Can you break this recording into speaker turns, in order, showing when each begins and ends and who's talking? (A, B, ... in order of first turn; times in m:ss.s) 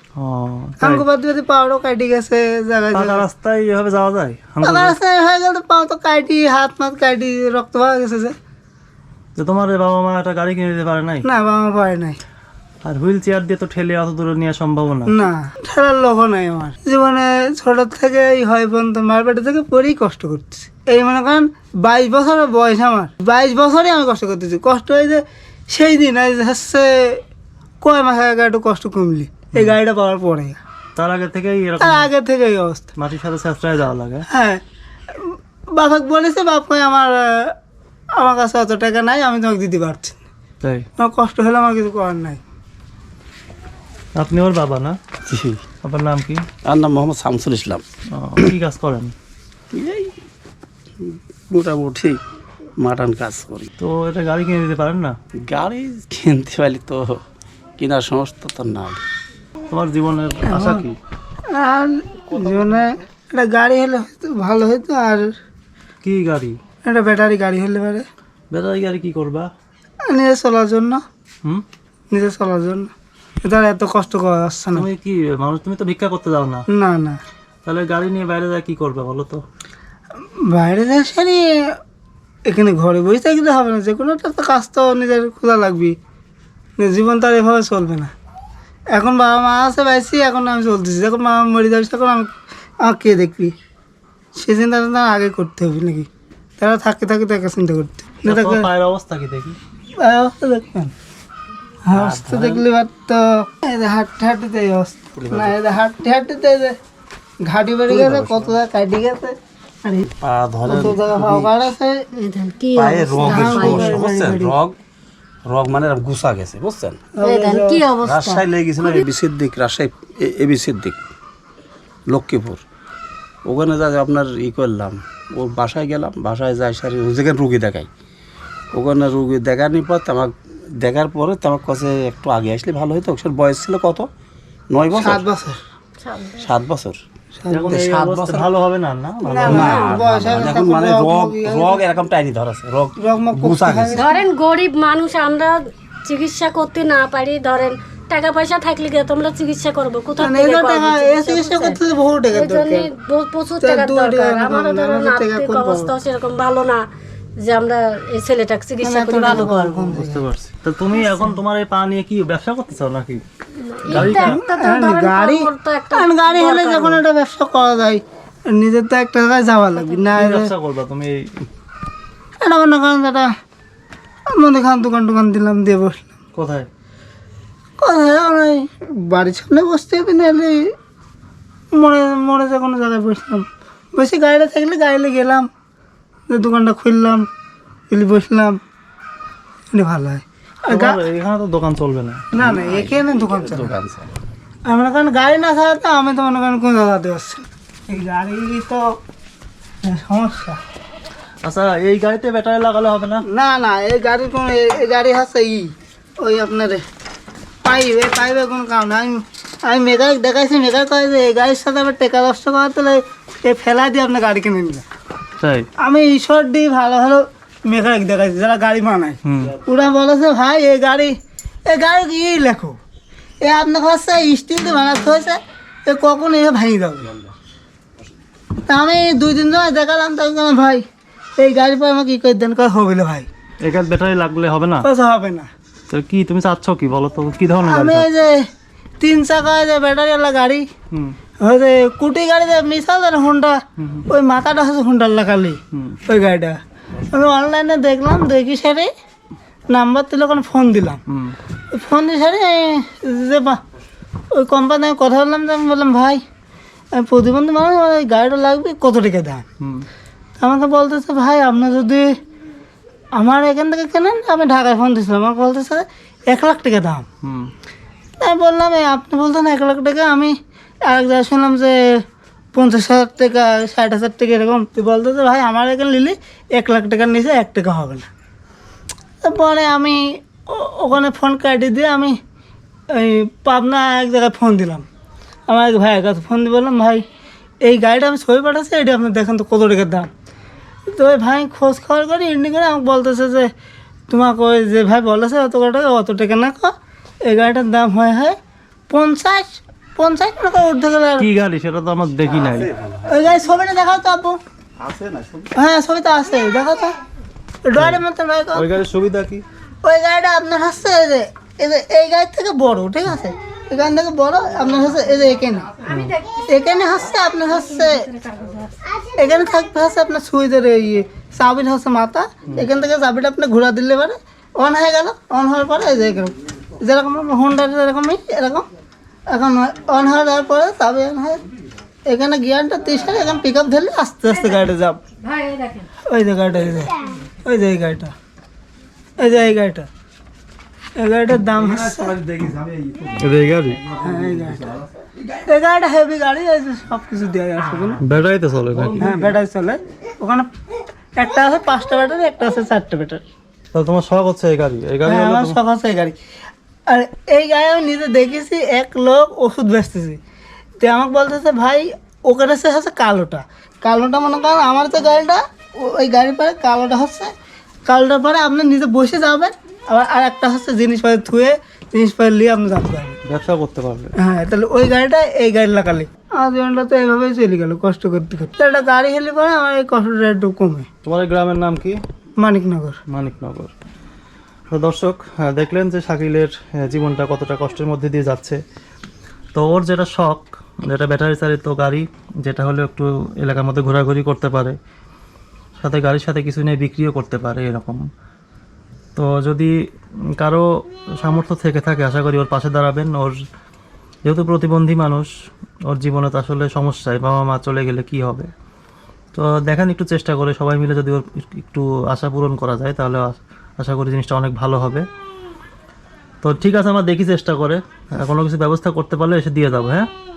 0:00.2-0:01.0 A
0:00.8-0:03.2 B
0:02.9-0:05.0 A
0:04.6-0:08.4 B
0:09.4-0:11.3 A
0:11.2-0:12.2 B
0:12.8-0:15.1 A
0:15.1-0:27.2 B
0:27.8-0:30.6 B
0:31.0-0:32.1 A
0:31.8-0:32.9 B
0:33.0-0:34.3 A
0:34.3-0:34.6 B
0:35.2-0:37.5 B
0:38.2-0:40.2 B
0:41.0-0:42.4 B
0:44.2-0:45.0 A
0:45.3-0:45.6 C
0:45.8-0:46.4 A
0:46.6-0:47.8 C
0:48.1-0:49.1 A
0:49.7-0:50.1 C
0:51.0-0:52.2 C
0:52.8-0:53.7 C
0:53.8-0:55.2 A
0:55.4-0:57.2 C
0:57.8-0:59.0 C
0:59.7-1:01.0 A
1:00.5-1:00.9 B
1:01.5-1:05.3 B
1:06.0-1:06.6 A
1:06.8-1:08.1 B
1:08.5-1:09.5 A
1:10.1-1:11.0 B
1:12.1-1:12.9 B
1:13.4-1:14.9 B
1:14.7-1:16.7 A
1:16.7-1:17.2 B
1:17.6-1:19.4 A
1:20.4-1:21.5 B
1:22.5-1:26.0 B
1:26.8-1:28.1 B
1:28.9-1:33.5 B
1:34.4-1:36.1 B
1:36.6-1:38.7 B
1:38.2-1:39.6 A
1:40.0-1:40.9 B
1:41.9-1:46.8 B
1:41.9-1:42.6 A
1:47.4-1:50.1 B
1:47.9-1:48.5 C
1:50.2-1:51.5 C
1:50.6-1:52.1 B
1:52.2-1:54.1 D
1:52.8-1:54.8 C
1:53.2-1:54.6 B
1:55.4-1:57.0 C
1:57.2-1:57.8 B
1:57.2-1:59.1 D
1:58.0-2:01.0 C
2:02.1-2:02.6 C
2:03.4-2:07.9 C
2:08.7-2:14.1 C
2:14.7-2:15.2 C
2:14.9-2:15.6 B
2:16.0-2:16.5 D
2:16.4-2:17.0 C
2:17.4-2:17.7 B
2:17.5-2:19.9 A
2:17.7-2:18.5 C
2:19.2-2:21.8 B
2:19.4-2:24.0 C
2:19.6-2:20.0 D
2:23.0-2:24.2 B
2:23.9-2:36.8 D
2:30.2-2:32.9 B
2:33.6-2:35.9 B
2:37.4-2:39.9 D
2:38.8-2:40.2 B
2:39.9-2:43.2 A
2:41.0-2:41.3 D
2:43.6-2:47.0 D
2:43.9-2:44.4 A
2:43.9-2:50.5 B
2:50.1-2:51.5 A
2:52.4-2:53.3 B
2:54.3-2:56.1 B
2:56.4-2:56.7 A
2:57.8-3:00.7 B
3:01.7-3:05.5 B
3:06.3-3:07.3 B
3:07.9-3:08.6 B
3:09.7-3:11.0 B
3:10.7-3:12.3 A
3:12.3-3:13.7 B
3:12.4-3:14.1 C
3:14.7-3:19.0 B
3:19.9-3:20.6 B
3:21.4-3:23.2 A
3:23.3-3:26.8 B
3:27.6-3:34.8 B
3:35.4-3:35.7 A
3:35.8-3:41.2 B
3:39.2-3:39.6 A
3:41.7-3:42.8 B
3:43.4-3:47.2 B
3:48.7-3:50.8 B
3:51.4-3:53.3 B
3:53.6-3:54.9 A
3:54.8-3:55.5 B
3:55.9-3:58.1 A
3:57.6-3:58.5 B
3:59.0-4:00.7 B
4:01.4-4:06.6 B
4:03.8-4:04.1 A
4:05.7-4:06.0 A
4:07.1-4:08.9 B
4:09.7-4:11.0 B
4:11.1-4:11.4 A
4:11.7-4:13.6 B
4:14.3-4:16.2 B
4:16.9-4:19.4 B
4:19.6-4:19.9 A
4:20.4-4:22.2 B
4:23.2-4:27.1 B
4:27.2-4:27.5 A
4:28.2-4:38.1 B
4:39.2-4:42.2 B
4:42.9-4:44.9 B
4:45.5-4:47.0 B
4:47.6-4:50.1 B
4:50.9-4:53.5 B
4:54.1-4:56.7 B
4:57.2-4:58.4 B
4:58.9-5:01.3 B
5:01.2-5:02.7 A
5:02.4-5:03.2 C
5:03.1-5:04.4 B
5:04.8-5:05.5 C
5:05.5-5:07.0 B
5:07.6-5:08.7 B
5:07.8-5:08.0 A
5:08.5-5:09.4 A
5:09.8-5:15.7 B
5:15.9-5:16.2 A
5:16.4-5:18.1 B
5:17.8-5:18.7 D
5:19.1-5:28.7 B
5:29.3-5:31.4 B
5:32.1-5:35.0 B
5:35.2-5:35.9 D
5:36.1-5:38.1 B
5:39.2-5:39.9 B
5:41.0-5:42.2 B
5:41.6-5:43.2 C
5:43.2-5:43.8 A
5:43.8-5:44.8 C
5:44.0-5:48.0 B
5:48.0-5:49.1 A
5:49.0-5:50.5 B
5:51.2-5:53.2 B
5:53.7-5:55.6 A
5:55.0-5:56.2 B
5:56.9-6:00.2 B
6:00.8-6:07.3 B
6:07.9-6:13.2 B
6:13.2-6:14.1 A
6:14.2-6:20.9 B
6:21.0-6:22.0 A
6:22.4-6:23.0 B
6:23.1-6:23.7 A
6:24.7-6:28.6 A
6:29.6-6:34.8 A
6:35.8-6:38.0 A
6:39.2-6:39.7 A
6:40.4-6:40.7 A
6:41.2-6:43.4 A
6:44.2-6:45.3 A
6:45.9-6:48.5 A
6:49.3-6:55.0 A
6:56.4-7:00.1 A